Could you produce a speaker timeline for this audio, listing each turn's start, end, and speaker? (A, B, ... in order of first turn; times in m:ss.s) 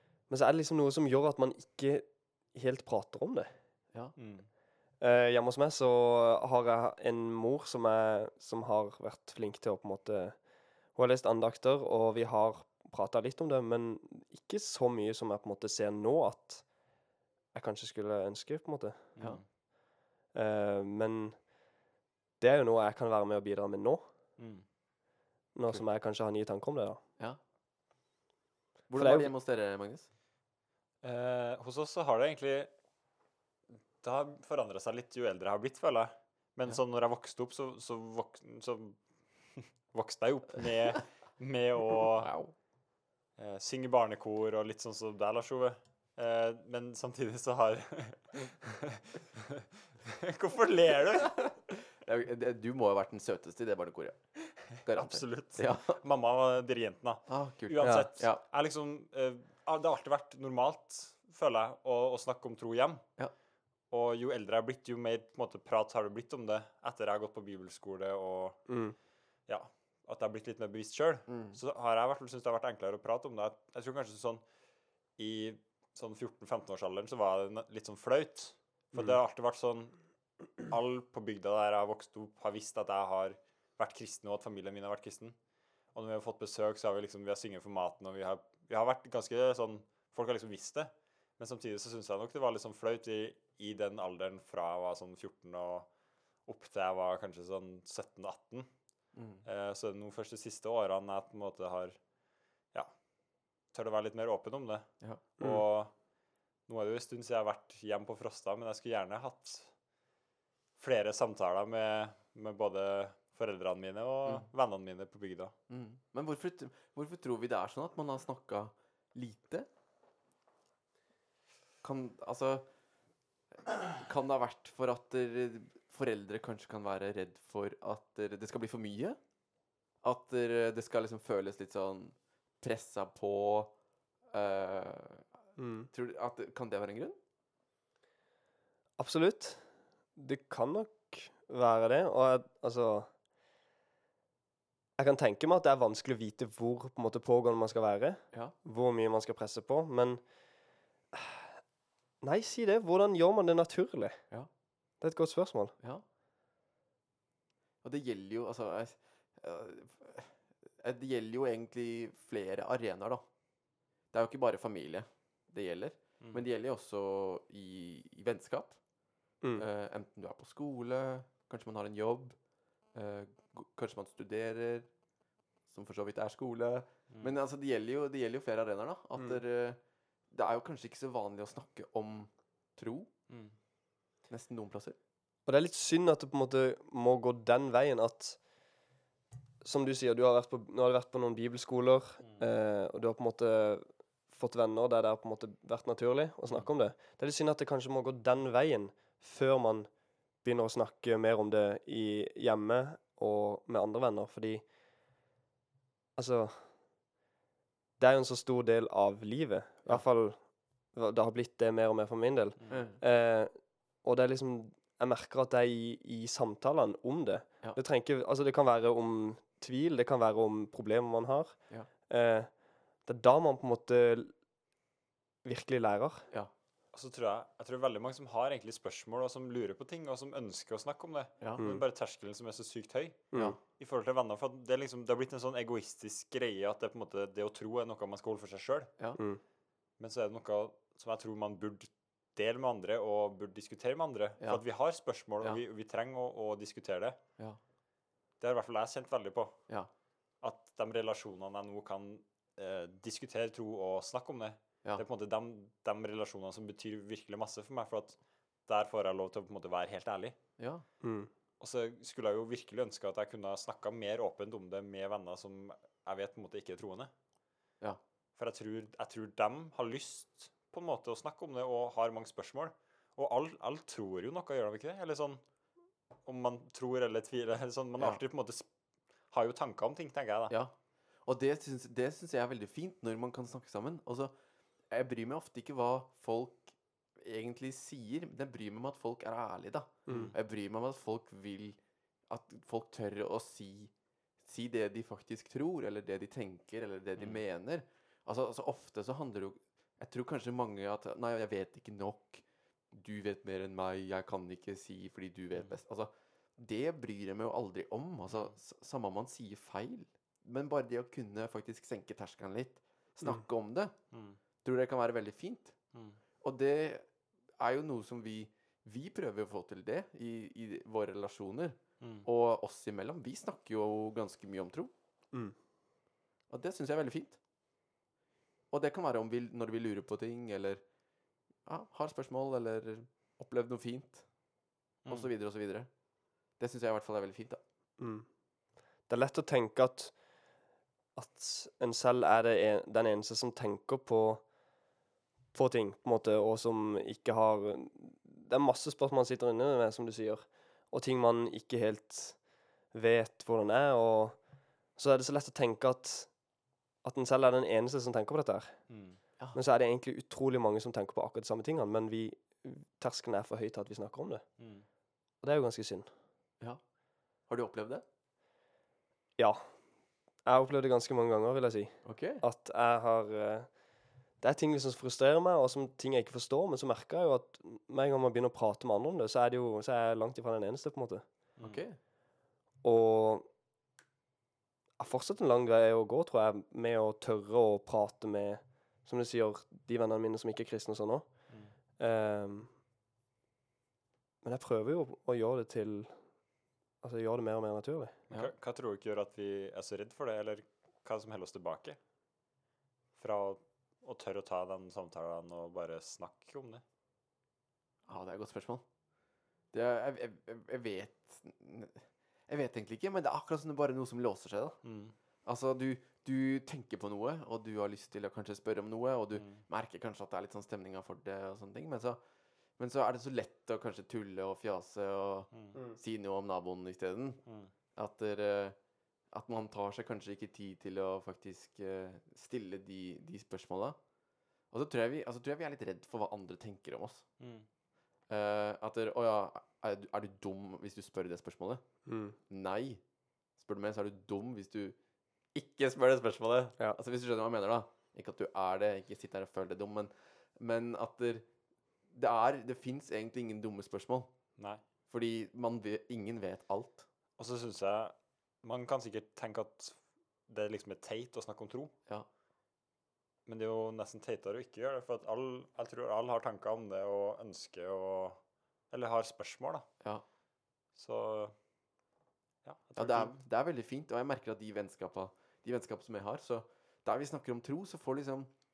0:00.3-0:03.5 A
0:04.2-0:04.5 B
0:05.0-0:10.4 A
0:11.0-0:16.6 A
0:17.5-0:19.1 A
0:19.2-0:19.4 B
0:20.3-0:21.4 A
0:22.4-0:24.0 A
0:24.4-0:24.6 B
0:25.5-0:27.0 A
0:28.9-0:30.1 C
0:28.9-0:29.3 A
0:31.0-0:32.7 B
0:34.0-0:39.0 B
0:39.6-0:42.3 B
0:42.1-0:42.5 C
0:43.4-0:51.5 B
0:51.4-0:54.2 C
0:54.8-0:56.0 C
0:54.9-1:03.0 B
0:57.3-0:58.4 C
0:57.8-0:58.1 A
1:03.9-1:08.6 B
1:08.7-1:08.9 A
1:09.5-1:14.4 B
1:11.3-1:11.6 C
1:15.2-1:19.9 B
1:20.6-1:25.4 B
1:25.9-1:35.9 B
1:36.4-1:38.7 B
1:39.1-1:39.4 C
1:39.4-1:42.0 B
1:43.7-1:44.9 B
1:45.4-1:45.9 B
1:46.7-1:49.7 B
1:50.8-1:55.5 B
1:55.7-1:59.7 C
2:01.8-2:02.6 C
2:03.6-2:09.2 C
2:10.0-2:13.7 C
2:14.3-2:15.2 C
2:15.6-2:15.9 A
2:15.9-2:17.2 C
2:19.0-2:19.6 A
2:20.2-2:23.1 A
2:25.0-2:30.2 A
2:31.1-2:31.5 A
2:32.2-2:34.2 A
2:35.0-2:35.7 A
2:37.8-2:43.2 C
2:44.1-2:48.8 C
2:49.6-2:52.4 C
2:52.9-2:54.9 C
2:55.7-2:59.8 C
3:00.3-3:03.1 C
3:04.3-3:05.0 C
3:05.5-3:08.4 A
3:09.6-3:19.9 A
3:20.4-3:24.6 A
3:26.2-3:26.6 A
3:28.0-3:30.4 A
3:30.9-3:33.5 A
3:32.7-3:33.0 C
3:34.0-3:41.6 A
3:42.1-3:42.5 A
3:43.0-3:44.3 A
3:45.4-3:46.2 A
3:46.9-3:58.9 B
3:51.4-3:51.6 C
3:51.6-3:51.8 A
3:59.2-3:59.4 A
4:00.0-4:07.2 B
4:08.4-4:09.6 B
4:10.4-4:20.4 B
4:20.6-4:20.8 C
4:21.0-4:21.3 A
4:21.6-4:27.1 B
4:28.4-4:35.4 B
4:36.2-4:38.7 B
4:39.3-4:40.5 B
4:41.2-4:44.3 C
4:44.9-4:51.8 C
4:50.1-4:50.3 A
4:50.1-4:50.3 B
4:52.3-4:53.9 C
4:54.4-5:13.9 C
4:57.2-4:57.4 B
5:14.1-5:14.4 B
5:14.6-5:15.7 C
5:16.4-5:17.0 C
5:17.6-5:24.9 C
5:22.0-5:22.2 B
5:26.5-5:27.4 C
5:28.7-5:30.8 C
5:31.6-5:34.2 C
5:35.1-5:35.9 C
5:36.6-5:37.6 C
5:38.0-5:38.2 A
5:39.1-5:40.1 A
5:41.2-5:44.4 A
5:45.5-5:52.4 A
5:52.9-5:54.4 A
5:55.0-5:56.3 A
5:57.0-5:58.7 A
5:58.9-5:59.2 B
5:59.5-6:04.4 A
6:04.6-6:04.8 B
6:05.4-6:06.1 A
6:07.5-6:08.0 C
6:10.4-6:13.7 A
6:12.0-6:12.4 C
6:14.4-6:21.2 A
6:21.6-6:21.8 B
6:21.6-6:22.0 C
6:22.8-6:23.5 A
6:25.0-6:31.3 A
6:32.0-6:32.7 A
6:34.4-6:36.1 A
6:37.0-6:38.2 A
6:38.3-6:42.0 B
6:43.2-6:46.8 B
6:48.1-6:48.8 C
6:49.7-6:54.8 C
6:54.8-6:55.1 B
6:55.4-7:02.2 C
6:59.4-6:59.6 B
7:02.8-7:07.4 C
7:08.0-7:08.8 C
7:09.3-7:14.0 C
7:14.7-7:17.2 C
7:17.4-7:17.6 B
7:18.3-7:21.8 C
7:22.0-7:22.4 A
7:22.5-7:23.0 C
7:23.6-7:25.0 C
7:25.5-7:31.4 C
7:32.1-7:34.3 C
7:35.1-7:37.1 C
7:37.4-7:40.0 B
7:40.5-7:41.9 B
7:43.5-7:48.4 B
7:48.9-7:49.8 B
7:51.0-7:51.5 B
7:52.6-7:53.3 B
7:53.0-7:58.5 C